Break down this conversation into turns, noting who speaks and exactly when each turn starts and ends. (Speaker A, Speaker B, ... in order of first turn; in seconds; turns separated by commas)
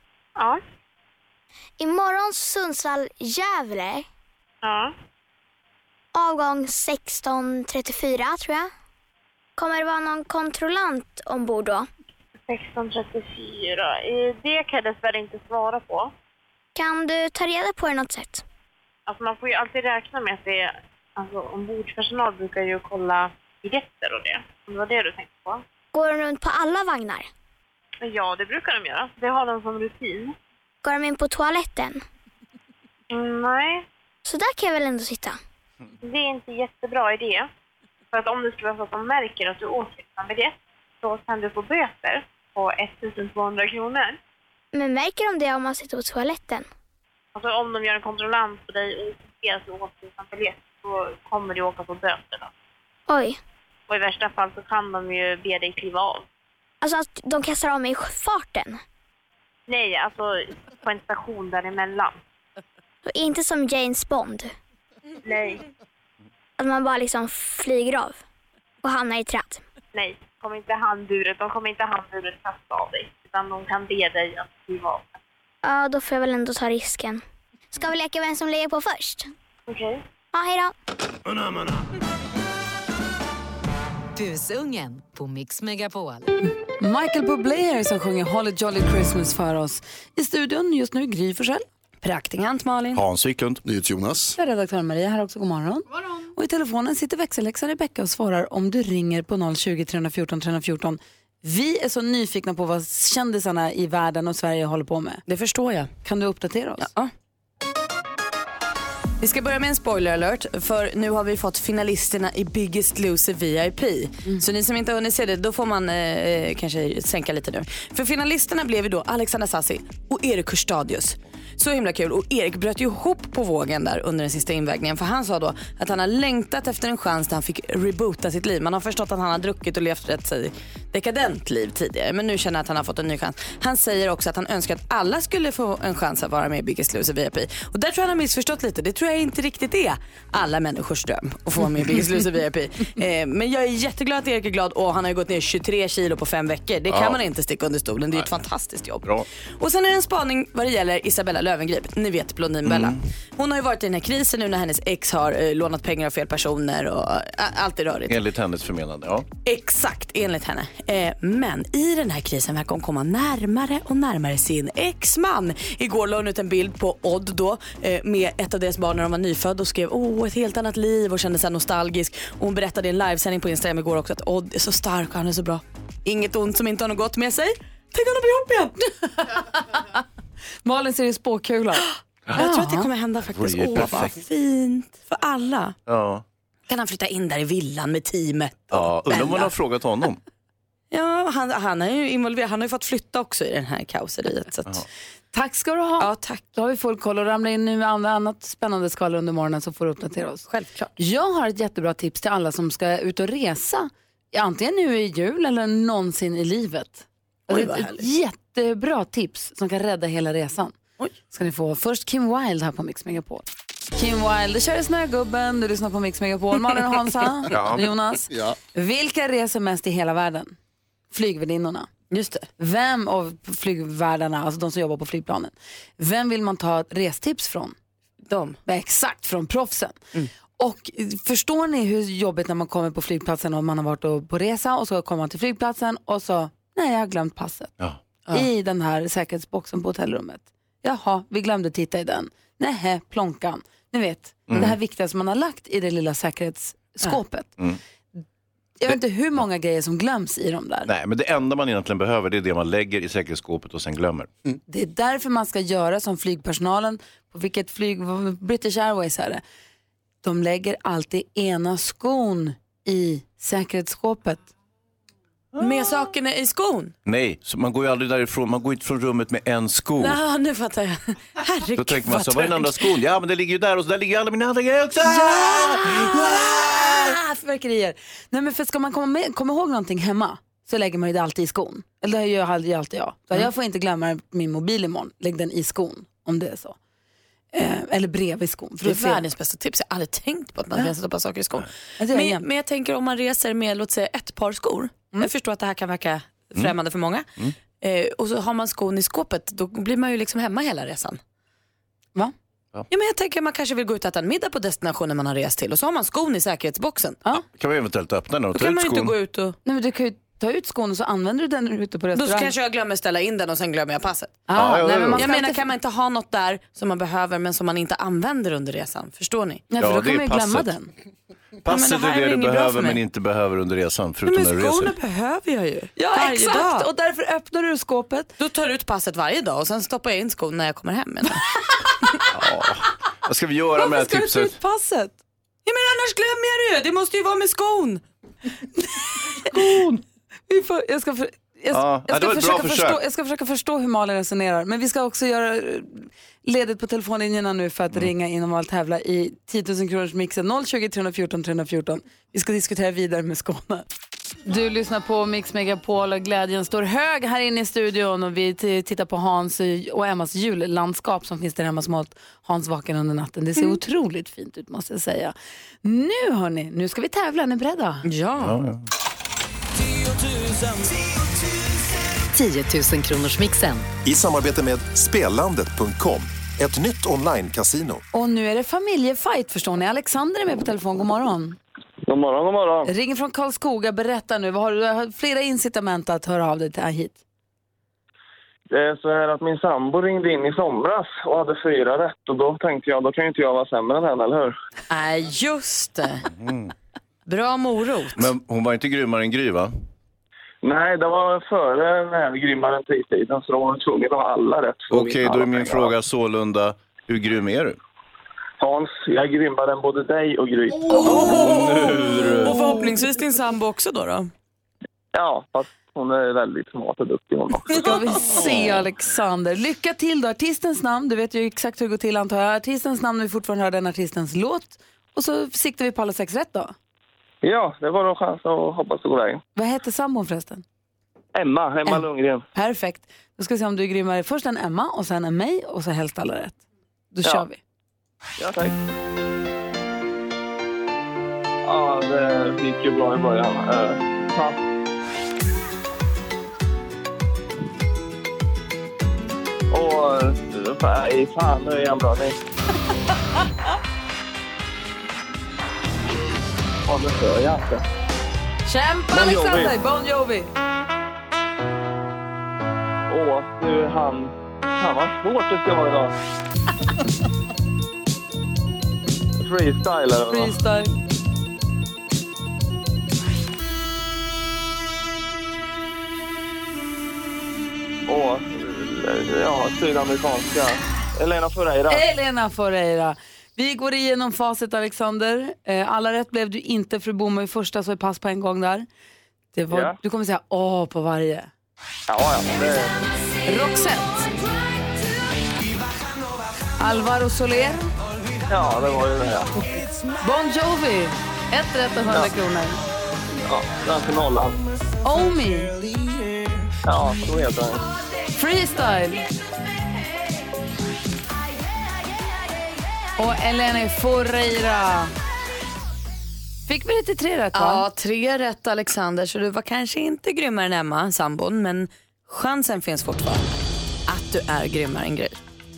Speaker A: 1.8-4.0, Speaker B: 4.6-4.9, Speaker A: 6.1-8.7, Speaker A: 9.6-11.9, Speaker B: 12.5-16.1, Speaker A: 16.7-18.4, Speaker B: 19.1-25.6, Speaker A: 25.9-27.3, Speaker B: 28.0-30.4, Speaker A: 30.8-32.0, Speaker B: 33.1-33.9, Speaker A: 34.2-35.4, Speaker B: 36.0-37.5, Speaker B: 38.1-44.2, Speaker A: 44.7-46.6, Speaker B: 47.3-52.5, Speaker A: 53.1-53.4, Speaker B: 53.9-56.2, Speaker A: 56.8-58.8, Speaker B: 59.7-62.2, Speaker A: 63.0-64.5, Speaker B: 65.2-65.6, Speaker A: 66.6-68.2, Speaker A: 68.8-69.6, Speaker B: 69.9-75.2, Speaker A: 75.6-77.2, Speaker A: 77.7-79.3, Speaker B: 79.7-80.0, Speaker A: 80.3-80.7, Speaker C: 84.2-86.3, Speaker D: 86.8-91.6, Speaker E: 92.0-93.0, Speaker F: 92.9-93.6, Speaker G: 93.6-94.3, Speaker D: 94.3-105.2, Speaker E: 105.3-105.9, Speaker D: 106.0-106.9, Speaker E: 106.8-107.1, Speaker E: 109.2-149.1, Speaker F: 146.9-147.2, Speaker E: 149.6-158.2, Speaker F: 152.7-153.0, Speaker F: 158.1-159.3, Speaker E: 159.4-178.9, Speaker D: 179.3-180.0, Speaker D: 180.6-182.9, Speaker E: 182.3-185.7, Speaker F: 183.4-184.1, Speaker F: 185.9-186.2, Speaker E: 186.7-189.5, Speaker F: 188.7-190.2, Speaker E: 190.9-194.8, Speaker D: 195.3-200.4, Speaker E: 196.0-196.5, Speaker E: 200.5-200.9, Speaker D: 201.0-210.7, Speaker E: 207.5-208.0, Speaker D: 211.3-220.5, Speaker F: 217.5-217.9, Speaker D: 221.1-221.9, Speaker E: 222.1-222.5, Speaker D: 222.6-227.7, Speaker E: 228.3-228.6, Speaker D: 228.7-230.0, Speaker D: 230.6-237.7, Speaker D: 238.3-247.5, Speaker F: 244.5-244.8, Speaker D: 248.8-250.9, Speaker F: 250.8-254.3, Speaker D: 254.7-259.4, Speaker D: 260.2-264.4, Speaker E: 265.6-266.9, Speaker F: 267.0-270.2, Speaker E: 270.0-272.8, Speaker F: 271.8-275.9, Speaker D: 275.1-286.8, Speaker D: 287.5-289.2, Speaker E: 288.8-297.3, Speaker D: 292.0-292.4, Speaker E: 297.8-301.2, Speaker E: 302.9-307.2, Speaker F: 307.4-309.1, Speaker E: 308.5-309.6, Speaker D: 309.6-312.5, Speaker E: 312.1-319.6, Speaker D: 314.5-315.7, Speaker F: 314.5-315.2, Speaker D: 319.7-320.9, Speaker F: 319.8-320.7, Speaker F: 321.6-324.9, Speaker E: 321.7-323.0, Speaker E: 324.2-326.9, Speaker D: 326.0-328.3, Speaker E: 328.4-331.4, Speaker F: 332.3-334.5, Speaker D: 333.8-335.1, Speaker E: 335.6-338.0, Speaker D: 340.5-353.8, Speaker F: 341.7-343.0, Speaker D: 354.4-368.0, Speaker E: 368.0-368.6, Speaker F: 368.4-368.9, Speaker G: 374.0-378.0, Speaker D: 378.1-381.6, Speaker H: 382.1-382.9, Speaker D: 382.9-387.2, Speaker H: 388.7-394.5, Speaker E: 394.9-396.3, Speaker F: 396.4-396.7, Speaker E: 397.3-398.3, Speaker F: 398.1-399.7, Speaker H: 400.6-405.9, Speaker F: 404.9-407.8, Speaker H: 408.6-410.9, Speaker E: 410.9-414.3, Speaker F: 411.0-412.6, Speaker H: 415.1-417.9, Speaker D: 417.7-426.7, Speaker H: 427.4-429.4, Speaker D: 429.5-430.6, Speaker H: 431.3-432.4, Speaker D: 431.8-436.6, Speaker D: 437.1-437.6, Speaker H: 438.4-438.7, Speaker H: 441.6-444.6, Speaker H: 449.7-452.4, Speaker H: 456.9-457.8, Speaker D: 458.6-460.5, Speaker H: 459.1-459.7, Speaker H: 463.1-466.1, Speaker H: 469.4-470.6, Speaker D: 470.3-470.9, Speaker H: 478.1-482.0, Speaker D: 481.9-488.9, Speaker D: 489.5-491.5, Speaker H: 489.7-490.0, Speaker H: 492.1-493.0, Speaker D: 493.4-494.3, Speaker D: 496.8-497.9, Speaker H: 498.5-499.5, Speaker D: 500.2-502.8, Speaker H: 503.4-504.6, Speaker D: 505.0-505.7, Speaker H: 506.9-507.8, Speaker D: 508.3-509.2, Speaker D: 513.2-515.1, Speaker D: 516.7-517.8, Speaker E: 517.5-523.5, Speaker E: 524.1-525.4